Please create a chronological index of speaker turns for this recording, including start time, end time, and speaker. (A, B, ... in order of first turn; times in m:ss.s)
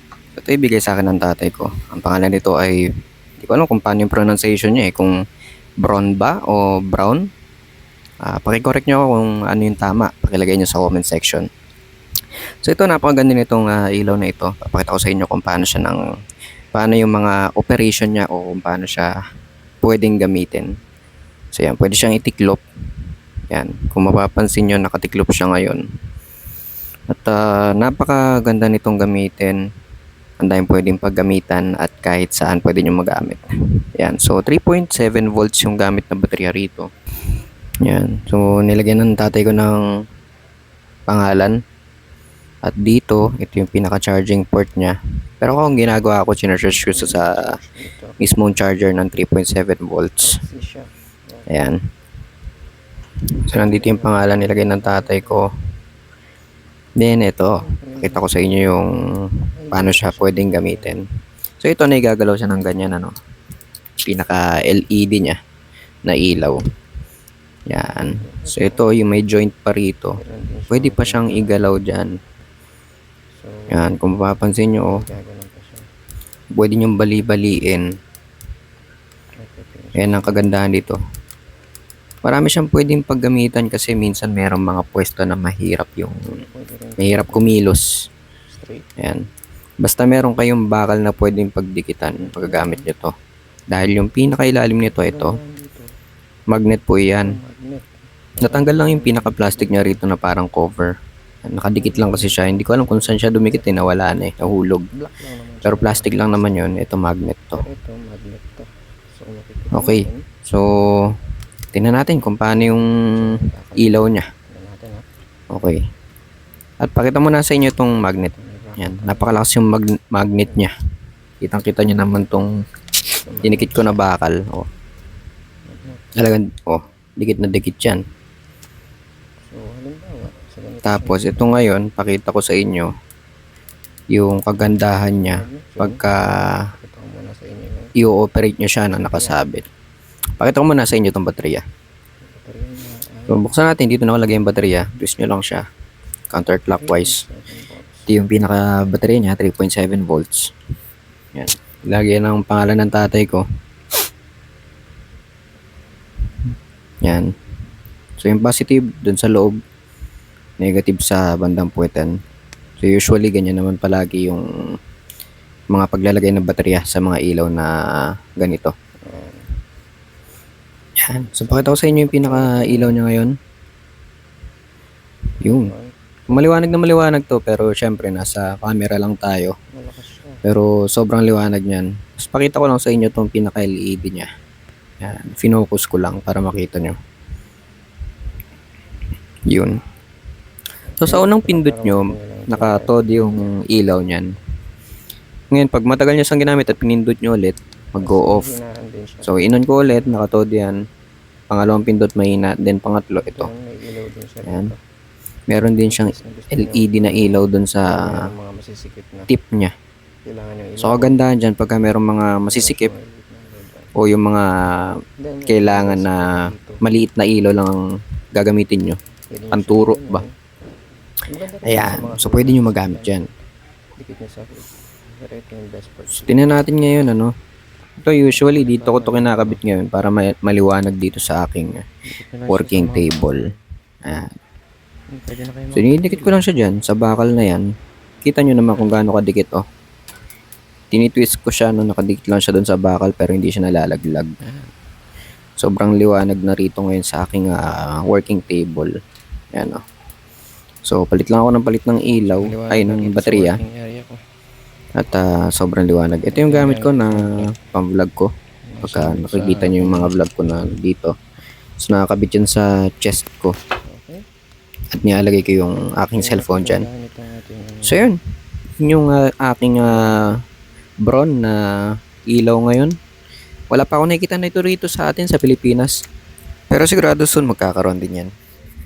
0:00.4-0:02.8 A
0:03.4-0:05.1 A
0:05.8-0:07.3 A
0:08.2-0:11.5 A
0:12.6-0:16.0 A
0:16.7-0:19.1 A
0:19.8-0:20.7 A
0:21.6-0:22.6 A
0:23.5-0:25.8 A
0:27.1-0:29.6 A
0:30.4-0:33.4 A
0:34.0-0:36.9 A
0:37.8-0:39.8 A
0:41.1-0:41.6 A
0:42.6-0:47.4 A
0:46.9-0:48.2 B
0:48.2-0:50.4 A
0:50.2-0:51.5 B
0:51.5-0:51.8 A
0:53.5-0:55.5 A
0:53.6-0:55.5 B
0:57.0-1:01.0 A
0:57.6-0:58.6 B
0:59.6-1:01.0 B
1:01.6-1:03.1 A
1:04.0-1:05.4 A
1:06.1-1:06.6 A
1:07.7-1:10.2 A
1:08.0-1:08.9 B
1:10.2-1:11.7 B
1:10.7-1:12.1 A
1:13.4-1:13.9 B
1:13.7-1:15.0 A
1:14.9-1:15.9 B
1:16.6-1:17.8 A
1:19.4-1:20.4 B
1:20.0-1:21.0 A
1:22.2-1:26.2 A
1:26.3-1:27.6 B
1:27.0-1:27.9 A
1:28.5-1:28.9 B
1:29.8-1:33.1 A
1:32.2-1:32.9 B
1:33.7-1:35.3 A
1:34.8-1:35.9 B
1:36.5-1:37.3 A
1:37.2-1:40.0 B
1:38.4-1:40.9 A
1:41.5-1:44.9 A
1:41.7-1:44.0 B
1:44.9-1:46.8 B
1:45.6-1:47.6 A
1:47.6-1:50.3 B
1:49.7-1:51.1 A
1:51.7-1:52.9 A
1:52.5-1:55.1 B
1:53.8-1:54.3 A
1:55.5-1:55.8 A
1:56.8-2:00.7 A
1:58.4-1:59.3 B
2:01.4-2:02.5 A
2:03.2-2:04.1 B
2:03.4-2:04.6 A
2:05.7-2:06.2 B
2:06.2-2:08.0 A
2:09.5-2:11.7 B
2:10.8-2:12.9 A
2:14.1-2:16.6 A
2:15.2-2:16.0 B
2:16.8-2:17.9 B
2:18.0-2:19.6 A
2:18.9-2:19.4 B
2:20.4-2:21.6 A
2:22.2-2:23.4 B
2:23.3-2:25.6 A
2:26.3-2:27.2 A
2:26.7-2:28.1 B
2:28.1-2:30.5 A
2:31.4-2:33.4 A
2:37.0-2:37.3 A
2:38.2-2:39.6 A
2:40.6-2:42.1 A
2:42.8-2:44.4 A
2:45.7-2:48.7 A
2:49.0-2:49.5 B
2:51.0-2:53.3 A
2:51.4-2:53.0 B
2:55.4-2:55.7 A
2:55.4-2:56.4 B
2:56.3-2:59.6 A
2:59.7-3:00.4 B
3:00.4-3:04.3 A
3:05.0-3:07.0 A
3:09.5-3:09.8 A
3:10.9-3:13.6 B
3:11.0-3:14.3 A
3:15.5-3:18.5 A
3:18.0-3:19.4 B
3:19.2-3:20.8 A
3:21.5-3:23.5 A
3:23.2-3:24.8 B
3:24.5-3:24.7 A
3:25.5-3:28.2 A
3:25.8-3:29.3 B
3:29.3-3:29.7 A
3:30.2-3:31.2 B
3:30.8-3:32.9 A
3:32.5-3:33.9 B
3:34.0-3:34.9 A
3:35.2-3:36.8 B
3:35.5-3:37.8 A
3:38.3-3:39.0 A
3:39.3-3:40.3 B
3:39.5-3:40.2 A
3:41.3-3:43.3 B
3:41.6-3:43.3 A
3:44.0-3:46.4 B
3:46.1-3:47.3 A
3:48.0-3:51.8 A
3:48.3-3:49.6 B
3:52.0-3:53.6 B
3:52.5-3:53.4 A
3:54.0-3:54.3 A
3:55.1-3:56.5 B
3:55.7-3:57.6 A
3:58.2-3:59.6 A
3:58.7-3:59.0 B
4:00.9-4:04.3 A
4:04.4-4:04.7 B
4:05.6-4:08.9 A
4:09.5-4:09.8 A
4:10.8-4:13.6 A
4:12.2-4:14.2 B
4:15.0-4:18.3 A
4:16.2-4:17.6 B
4:18.7-4:20.2 B
4:18.8-4:21.1 A
4:21.8-4:23.6 A
4:23.8-4:24.2 B
4:24.9-4:26.8 A
4:26.1-4:28.1 B
4:27.8-4:28.2 A
4:28.8-4:30.3 A
4:29.8-4:30.3 B
4:31.1-4:31.6 A
4:32.3-4:33.0 A
4:33.7-4:35.9 A
4:36.7-4:38.3 A